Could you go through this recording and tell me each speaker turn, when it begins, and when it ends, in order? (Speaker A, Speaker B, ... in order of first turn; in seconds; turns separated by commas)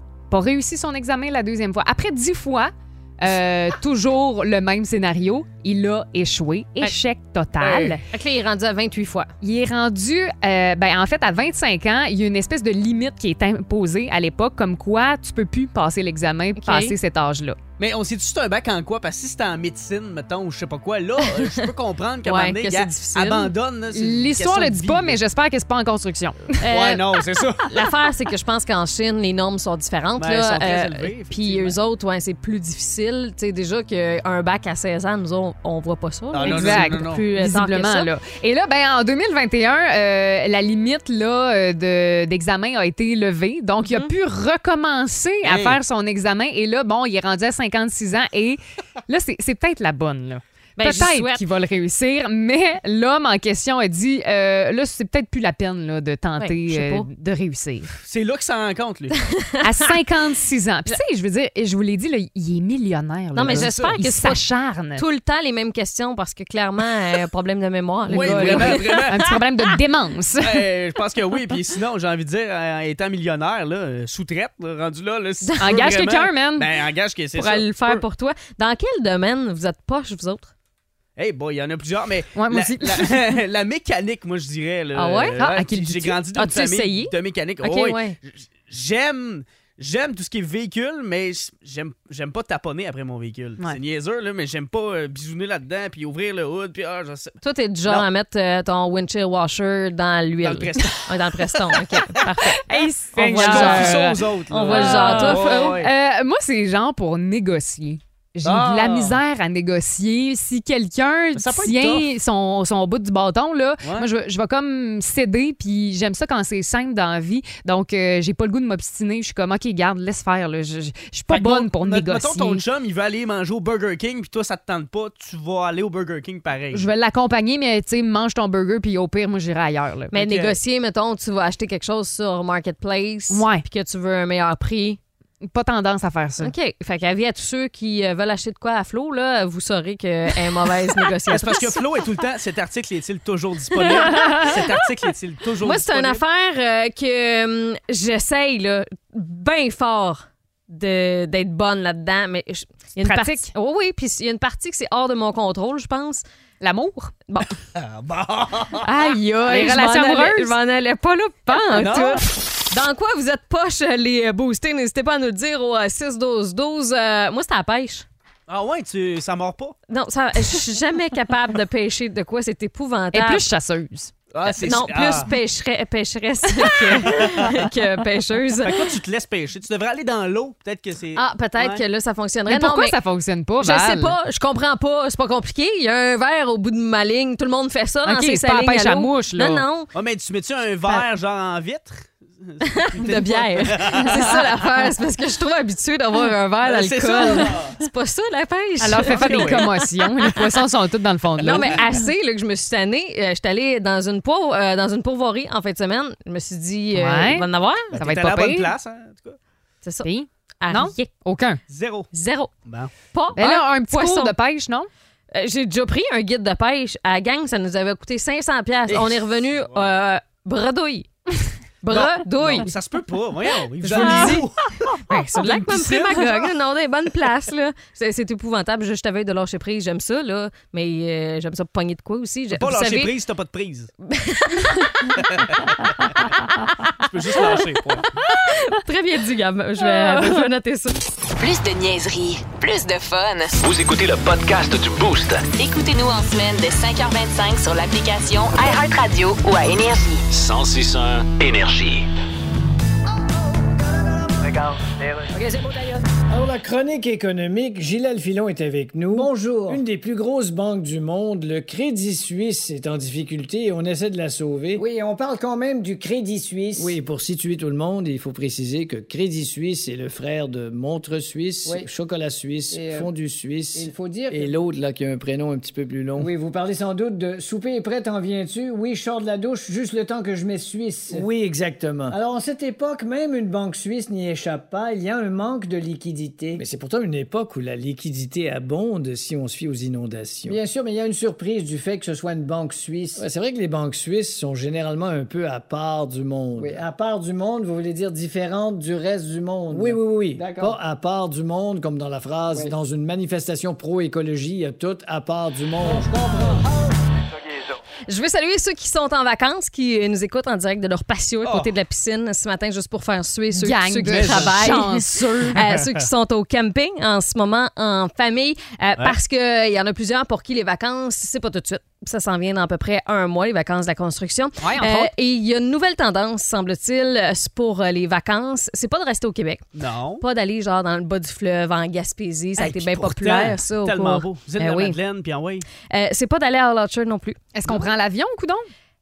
Speaker A: 0.3-8.0, Speaker B: 7.6-9.3, Speaker A: 9.4-17.6, Speaker B: 16.6-16.9, Speaker C: 17.8-25.2, Speaker B: 21.2-21.6, Speaker B: 22.2-23.5, Speaker A: 23.9-26.6, Speaker B: 26.6-38.1, Speaker C: 26.6-27.9, Speaker C: 30.2-31.8, Speaker C: 36.3-37.2, Speaker A: 36.4-57.9, Speaker B: 43.9-44.1, Speaker C: 45.4-45.8, Speaker B: 50.8-51.4, Speaker B: 56.4-57.0, Speaker C: 58.0-59.1, Speaker A: 59.6-65.0, Speaker B: 63.3-64.4, Speaker C: 63.4-64.0, Speaker B: 65.0-69.4, Speaker C: 68.1-69.3, Speaker A: 68.2-70.6, Speaker C: 70.4-78.0, Speaker A: 75.6-76.7, Speaker B: 77.3-80.5, Speaker C: 81.2-98.1, Speaker A: 82.3-83.1, Speaker B: 84.9-85.4, Speaker A: 85.4-86.2, Speaker B: 86.3-88.2, Speaker B: 97.4-105.8, Speaker C: 100.4-102.2, Speaker A: 102.6-104.1, Speaker C: 103.3-105.9, Speaker A: 104.7-122.6, Speaker C: 108.4-109.2, Speaker C: 111.3-112.1, Speaker C: 113.8-114.1, Speaker C: 121.3-126.9, Speaker A: 126.7-130.1, Speaker B: 130.1-135.0, Speaker C: 130.1-130.6, Speaker A: 133.3-133.6, Speaker A: 135.5-136.5, Speaker B: 136.4-141.9, Speaker C: 141.3-146.2, Speaker B: 143.7-144.7, Speaker A: 144.1-144.4, Speaker B: 145.6-156.2, Speaker A: 153.0-153.5, Speaker A: 156.6-157.1, Speaker C: 157.7-158.8, Speaker A: 158.8-160.5, Speaker B: 158.9-168.1, Speaker C: 161.7-162.2, Speaker C: 168.5-169.7, Speaker B: 169.9-173.4, Speaker A: 173.1-174.1, Speaker C: 174.3-175.3, Speaker B: 174.4-178.9, Speaker C: 177.1-177.6, Speaker C: 178.6-181.8, Speaker B: 181.2-183.0, Speaker A: 182.5-184.1, Speaker B: 183.6-189.9, Speaker A: 188.0-189.6, Speaker C: 189.9-194.7, Speaker B: 192.6-200.3, Speaker C: 196.6-197.7, Speaker A: 198.8-201.8, Speaker C: 199.0-199.8, Speaker B: 201.4-207.9, Speaker C: 201.4-201.8, Speaker A: 206.9-208.7, Speaker C: 207.9-209.4, Speaker A: 210.0-211.6, Speaker B: 210.6-210.9, Speaker C: 211.7-212.1, Speaker B: 212.1-212.5, Speaker C: 212.7-212.9, Speaker B: 213.1-214.3, Speaker A: 213.4-214.9, Speaker B: 215.3-221.1, Speaker C: 218.9-219.9, Speaker B: 221.8-222.7, Speaker C: 221.9-226.5, Speaker B: 223.8-224.5, Speaker A: 223.9-224.4, Speaker B: 225.0-233.1, Speaker C: 232.5-233.9, Speaker B: 234.1-235.2, Speaker C: 235.2-235.6, Speaker C: 237.0-238.1, Speaker B: 237.3-237.6, Speaker B: 238.3-240.9, Speaker A: 239.9-240.4, Speaker D: 241.4-243.6, Speaker E: 243.6-245.5, Speaker D: 245.5-250.2, Speaker E: 250.3-252.1, Speaker F: 255.3-256.7, Speaker G: 258.6-264.8, Speaker F: 259.1-259.9, Speaker F: 264.7-267.0, Speaker G: 266.8-276.3, Speaker F: 272.7-273.1, Speaker F: 273.7-274.5, Speaker F: 276.2-281.3, Speaker G: 281.1-282.2, Speaker F: 282.1-286.6, Speaker G: 286.7-290.6, Speaker F: 290.4-293.7, Speaker G: 294.1-296.8, Speaker F: 296.6-301.6, Speaker G: 299.7-300.8, Speaker F: 302.5-302.8, Speaker G: 302.5-303.6, Speaker F: 305.5-306.6, Speaker G: 305.8-306.1, Speaker B: 308.1-329.6, Speaker C: 311.4-311.7, Speaker A: 313.5-315.6, Speaker C: 314.1-314.8, Speaker C: 315.5-316.1, Speaker A: 324.6-325.1, Speaker C: 329.7-330.2, Speaker B: 330.2-335.0, Speaker C: 332.6-335.6, Speaker B: 335.9-337.4, Speaker A: 337.5-338.7